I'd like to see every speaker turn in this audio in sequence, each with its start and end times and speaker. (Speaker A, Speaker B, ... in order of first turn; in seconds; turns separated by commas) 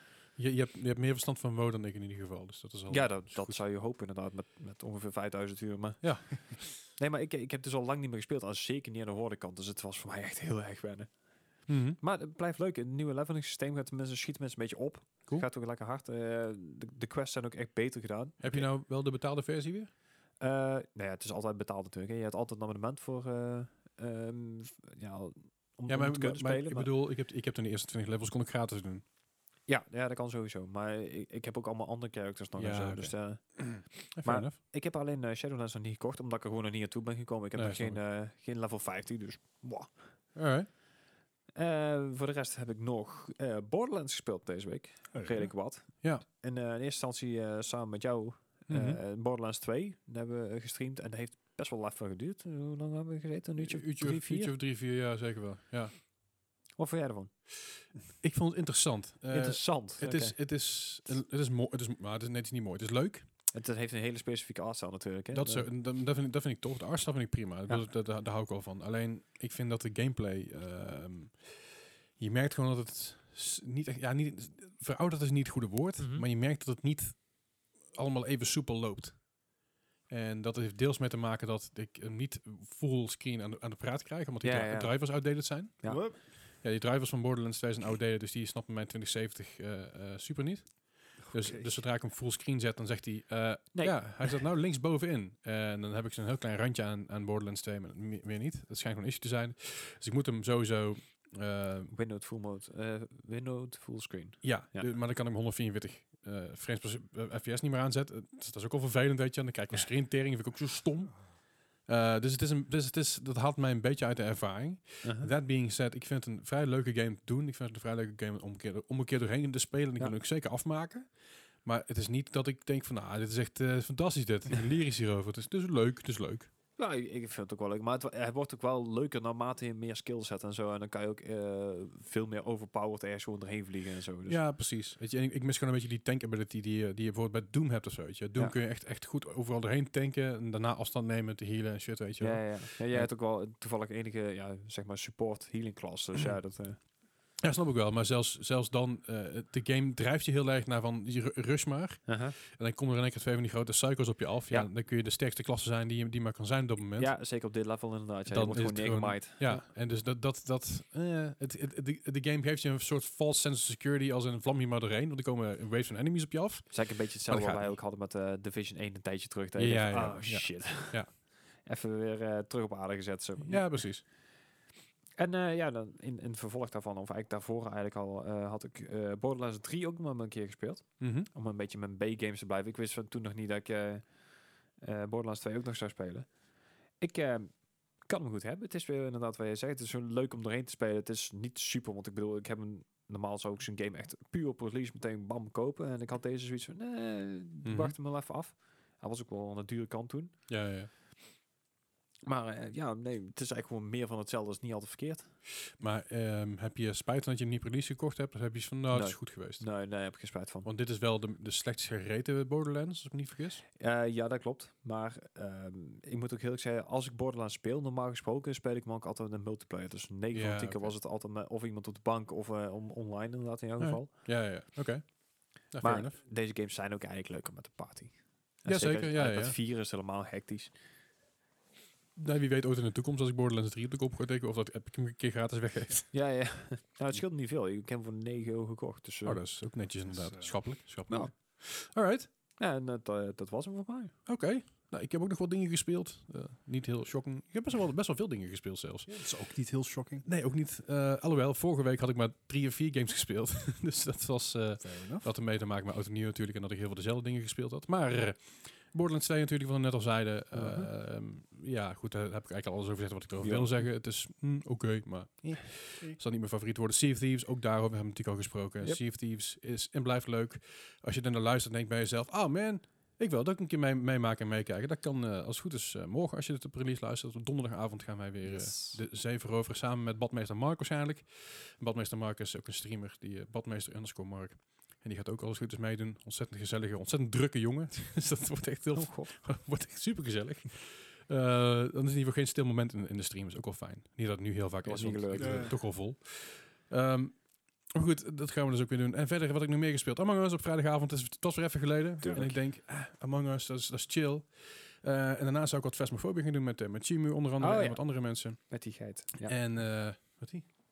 Speaker A: 0.4-3.6, Speaker B: 2.9-18.7, Speaker A: 6.0-6.6, Speaker A: 11.7-12.0, Speaker A: 18.4-19.9, Speaker B: 20.4-26.9, Speaker A: 25.9-29.0, Speaker B: 29.7-40.0, Speaker A: 32.6-34.6, Speaker A: 37.5-38.0, Speaker A: 40.4-40.7, Speaker B: 41.5-54.5, Speaker C: 45.1-45.5, Speaker A: 48.7-49.0, Speaker A: 53.6-56.0, Speaker B: 56.8-57.3, Speaker A: 57.8-63.3, Speaker B: 59.3-60.4, Speaker B: 63.5-65.7, Speaker A: 65.3-77.3, Speaker B: 76.0-76.2, Speaker A: 77.9-79.3, Speaker A: 80.1-101.9, Speaker B: 84.4-85.0, Speaker C: 85.9-86.2, Speaker C: 91.2-91.8, Speaker B: 93.7-94.4, Speaker B: 101.9-104.9, Speaker A: 104.4-111.3, Speaker A: 111.8-121.1, Speaker B: 115.0-115.3, Speaker A: 121.6-126.5, Speaker B: 126.8-134.4, Speaker A: 134.3-143.1, Speaker B: 142.2-146.8, Speaker A: 147.4-157.1, Speaker B: 152.1-152.3, Speaker B: 157.0-159.7, Speaker A: 158.3-167.7, Speaker B: 166.7-173.8, Speaker A: 169.6-171.1, Speaker C: 169.9-170.2, Speaker A: 173.4-174.0, Speaker B: 175.2-184.1, Speaker A: 181.0-181.3, Speaker B: 184.8-186.3, Speaker B: 187.0-200.3, Speaker A: 197.6-197.9, Speaker A: 200.5-200.9, Speaker B: 202.2-205.3, Speaker A: 205.8-209.8, Speaker B: 208.9-210.7, Speaker A: 210.6-213.6, Speaker B: 213.8-224.1, Speaker A: 220.3-220.9, Speaker A: 223.8-226.2, Speaker B: 225.8-230.8, Speaker A: 228.7-229.6, Speaker A: 232.2-236.1, Speaker B: 236.1-239.4, Speaker A: 239.2-242.3, Speaker C: 240.1-240.5, Speaker B: 242.6-244.1, Speaker A: 244.3-249.2, Speaker C: 249.1-250.2, Speaker A: 250.2-297.4, Speaker C: 254.8-255.3, Speaker B: 260.5-260.9, Speaker B: 263.4-263.8, Speaker B: 278.5-279.0, Speaker B: 288.9-289.3, Speaker B: 294.8-295.7, Speaker C: 295.4-295.7, Speaker A: 297.9-308.9, Speaker B: 302.2-302.6, Speaker B: 307.6-309.5, Speaker A: 309.4-310.7